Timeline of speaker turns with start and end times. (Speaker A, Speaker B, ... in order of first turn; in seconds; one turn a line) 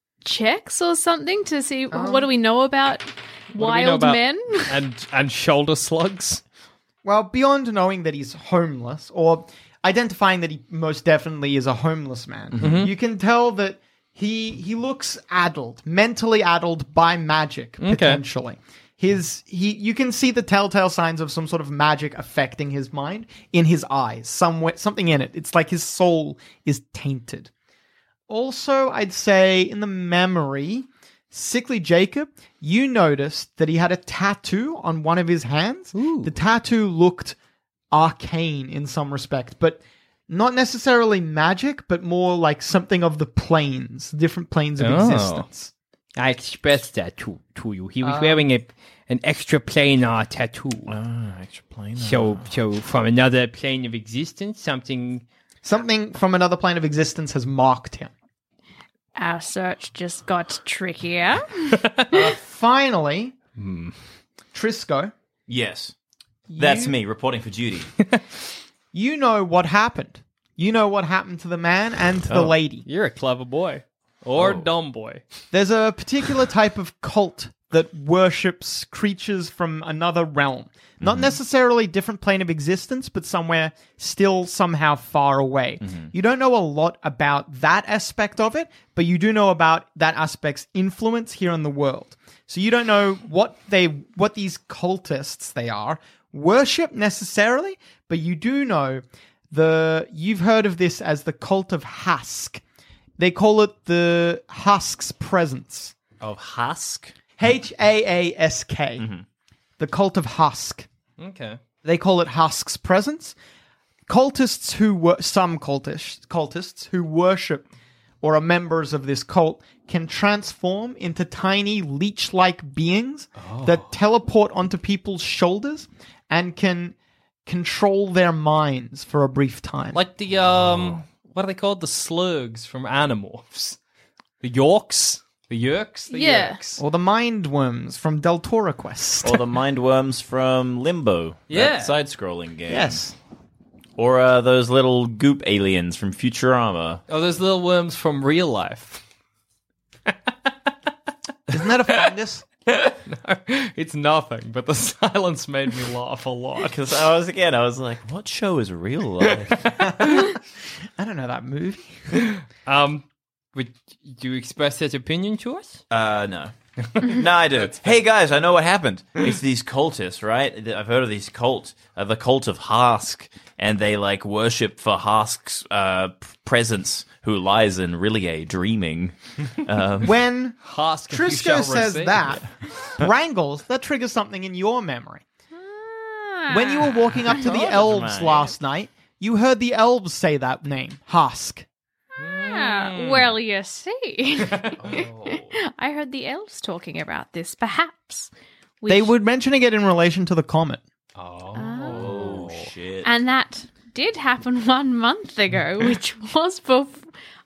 Speaker A: 0.2-4.7
Speaker B: 1.9-2.3
Speaker C: 3.5-6.4
Speaker B: 7.0-27.5
Speaker D: 12.6-12.9
Speaker C: 12.6-12.9
Speaker C: 17.8-18.2
Speaker B: 28.3-37.4
Speaker C: 35.9-36.3
Speaker B: 37.9-45.7
Speaker C: 44.8-45.5
Speaker C: 46.2-50.9
Speaker B: 48.0-48.4
Speaker D: 50.9-52.5
Speaker C: 52.0-55.2
Speaker B: 55.6-58.1
Speaker A: 59.1-61.8
Speaker B: 62.1-63.4
Speaker C: 63.6-63.9
Speaker B: 64.5-65.1
Speaker D: 65.5-65.9
Speaker B: 66.5-67.0
Speaker D: 66.6-67.9
Speaker B: 68.9-72.8
Speaker C: 72.8-75.2
Speaker D: 74.3-74.7
Speaker B: 75.5-102.6
Speaker D: 81.0-81.3
Speaker D: 85.8-86.1
Speaker B: 103.2-106.0
Speaker C: 106.2-107.1
Speaker B: 107.4-109.1
Speaker D: 109.0-109.2
Speaker B: 109.8-110.9
Speaker C: 111.2-111.6
Speaker B: 111.8-113.3
Speaker B: 114.1-117.6
Speaker B: 118.2-130.0
Speaker C: 123.4-123.9
Speaker C: 129.9-133.8
Speaker D: 130.5-130.9
Speaker C: 134.4-136.8
Speaker A: 136.1-136.6
Speaker B: 136.8-139.4
Speaker D: 139.2-143.1
Speaker C: 141.5-141.9
Speaker B: 142.7-143.1
Speaker D: 144.0-147.0
Speaker C: 147.1-149.0
Speaker C: 150.1-150.5
Speaker B: 151.5-152.4
Speaker C: 152.7-156.8
Speaker D: 156.6-159.7
Speaker B: 159.9-160.3
Speaker B: 161.0-162.0
Speaker C: 162.2-165.8
Speaker D: 165.9-180.1
Speaker C: 167.6-167.8
Speaker B: 180.0-185.2
Speaker C: 180.6-182.4
Speaker A: 185.5-187.0
Speaker B: 186.5-191.7
Speaker D: 187.3-188.5
Speaker C: 192.2-193.3
Speaker A: 192.2-198.3
Speaker C: 194.5-194.8
Speaker D: 194.8-195.6
Speaker A: 198.8-199.1
Speaker B: 198.9-200.8
Speaker C: 201.2-202.5
Speaker A: 201.5-202.5
Speaker D: 201.9-203.1
Speaker A: 203.0-207.1